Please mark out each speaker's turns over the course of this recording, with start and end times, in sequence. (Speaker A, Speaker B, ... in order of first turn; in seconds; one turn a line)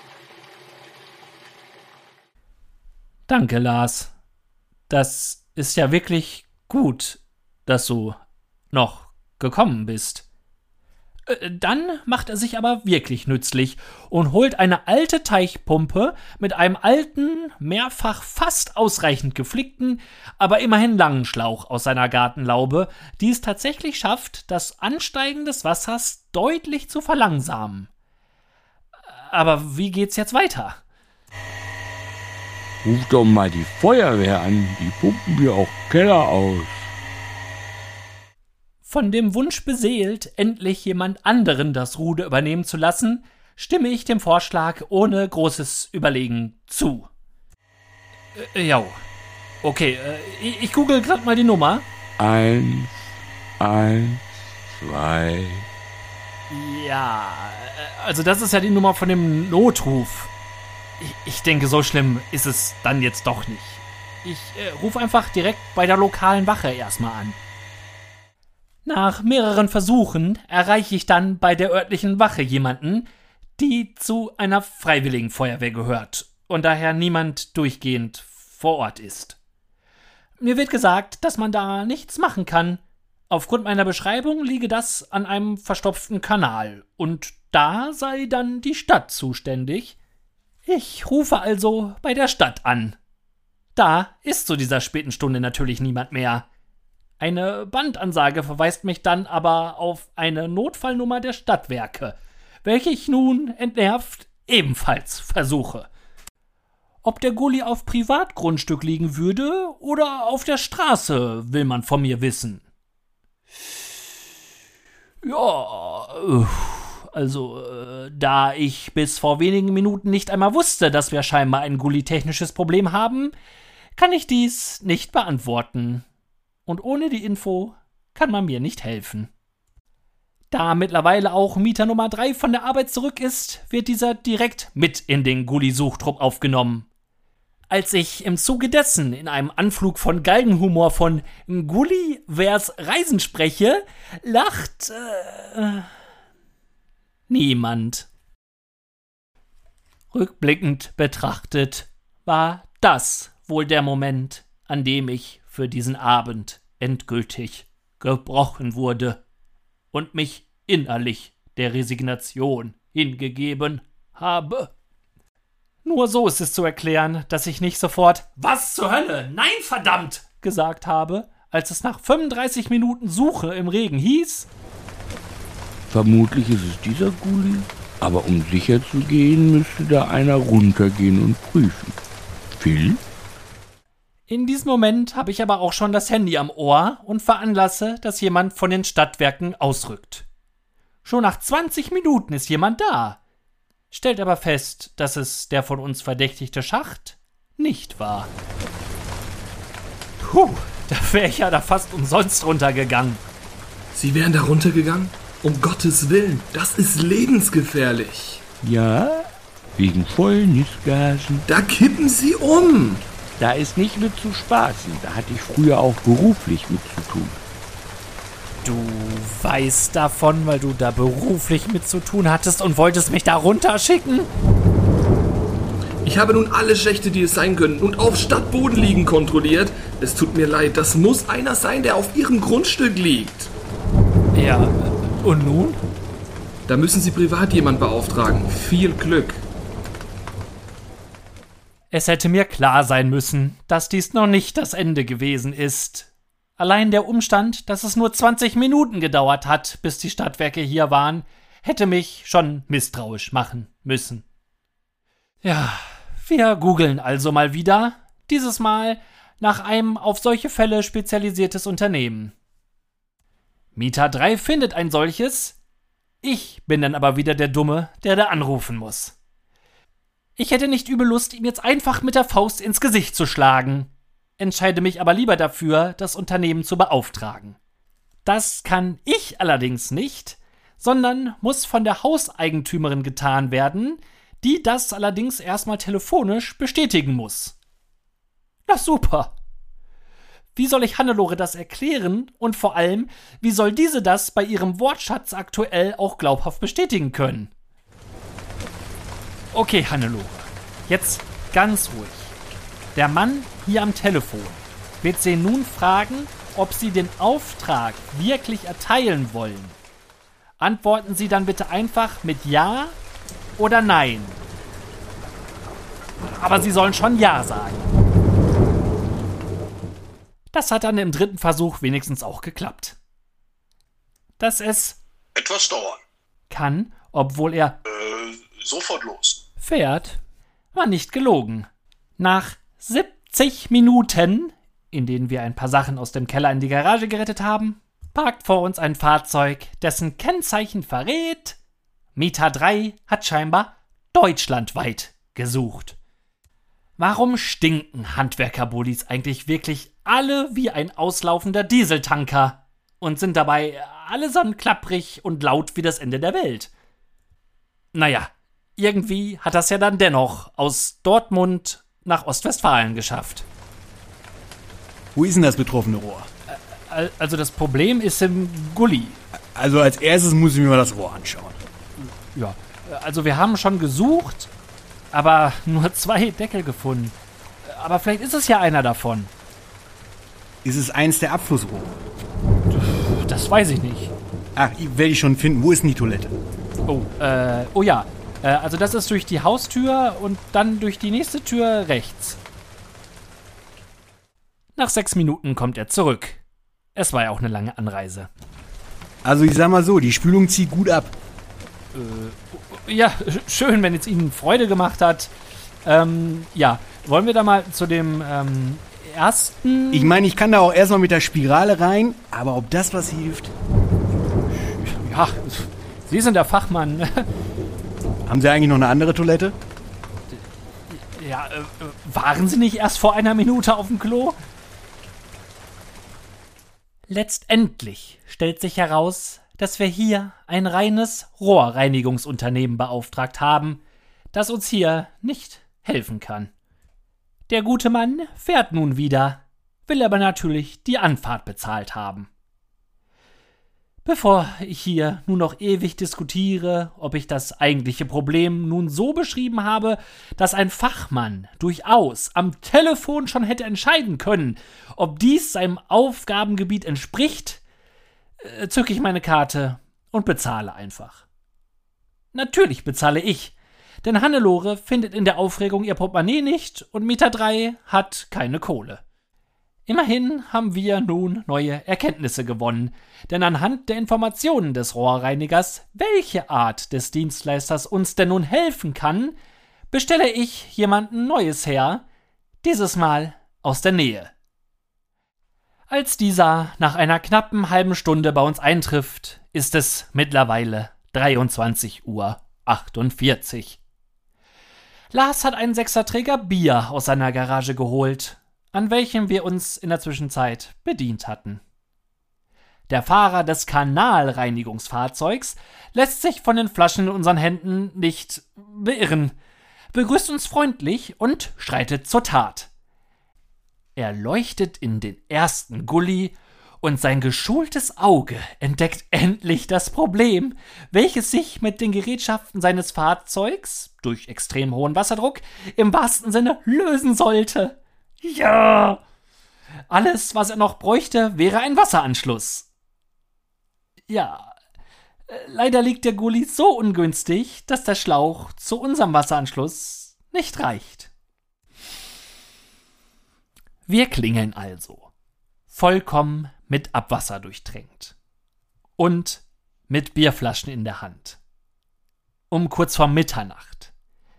Speaker A: 3.3-4.1
Speaker A: 4.9-8.2
Speaker A: 8.7-10.2
Speaker A: 11.3-27.9
Speaker A: 29.2-30.8
Speaker B: 32.8-36.9
Speaker A: 38.9-47.1
Speaker A: 48.4-49.0
Speaker A: 49.6-51.9
Speaker B: 52.2-55.7
Speaker A: 56.5-60.3
Speaker A: 61.0-67.4
Speaker A: 68.8-79.4
Speaker A: 80.4-90.0
Speaker A: 90.7-93.0
Speaker A: 93.8-96.5
Speaker A: 97.2-105.9
Speaker A: 107.0-112.6
Speaker A: 115.2-123.3
Speaker A: 124.0-126.0
Speaker A: 126.7-129.3
Speaker A: 130.5-136.9
Speaker A: 137.7-145.9
Speaker A: 147.3-148.1
Speaker A: 150.1-159.2
Speaker A: 159.9-164.7
Speaker A: 165.8-174.5
Speaker B: 175.9-182.0
Speaker B: 182.6-183.0
Speaker A: 184.3-190.3
Speaker A: 191.1-193.2
Speaker A: 193.9-198.3
Speaker A: 200.2-203.2
Speaker C: 203.9-208.4
Speaker B: 208.6-211.5
Speaker C: 211.5-213.1
Speaker B: 213.4-217.4
Speaker A: 218.6-224.3
Speaker C: 226.0-233.5
Speaker A: 234.3-235.8
Speaker C: 236.7-239.4
Speaker A: 241.9-254.2
Speaker A: 255.4-262.3
Speaker A: 263.8-265.6
Speaker A: 266.2-269.2
Speaker A: 270.4-277.6
Speaker A: 278.2-287.6
Speaker A: 288.7-289.3
Speaker A: 290.6-297.5
Speaker A: 299.5-302.3
Speaker A: 302.9-309.8
Speaker A: 310.6-313.0
Speaker A: 313.6-314.4
Speaker A: 316.2-317.9
Speaker A: 320.5-323.0
Speaker A: 324.4-325.0
Speaker D: 325.4-326.0
Speaker A: 326.5-327.8
Speaker D: 327.9-329.4
Speaker A: 329.6-330.2
Speaker A: 330.7-341.6
Speaker A: 342.1-346.0
Speaker A: 347.0-356.7
Speaker A: 357.9-363.5
Speaker E: 365.1-366.3
Speaker A: 366.5-369.2
Speaker E: 369.6-371.6
Speaker A: 372.0-374.5
Speaker A: 375.1-379.3
Speaker E: 380.6-382.0
Speaker A: 382.7-384.1
Speaker E: 384.6-386.4
Speaker A: 386.9-392.4
Speaker A: 394.8-396.4
Speaker A: 396.9-398.3
Speaker E: 399.2-401.1
Speaker A: 401.9-405.3
Speaker A: 405.8-410.2
Speaker E: 409.9-413.5
Speaker A: 414.6-417.3
Speaker E: 418.3-419.6
Speaker A: 420.3-424.4
Speaker A: 427.1-433.8
Speaker A: 434.3-436.5
Speaker A: 437.5-442.3
Speaker A: 444.1-457.6
Speaker A: 458.4-461.2
Speaker A: 462.3-469.0
Speaker A: 469.9-479.4
Speaker A: 479.9-482.0
Speaker A: 482.6-484.3
Speaker A: 485.9-493.8
Speaker A: 495.1-501.6
Speaker A: 502.9-509.4
Speaker A: 509.9-512.7
Speaker A: 514.0-529.0
Speaker A: 529.9-532.7
Speaker A: 534.1-534.5
Speaker A: 535.3-541.1
Speaker A: 543.9-545.1
Speaker A: 545.7-548.1
Speaker A: 549.0-551.4
Speaker A: 552.5-553.9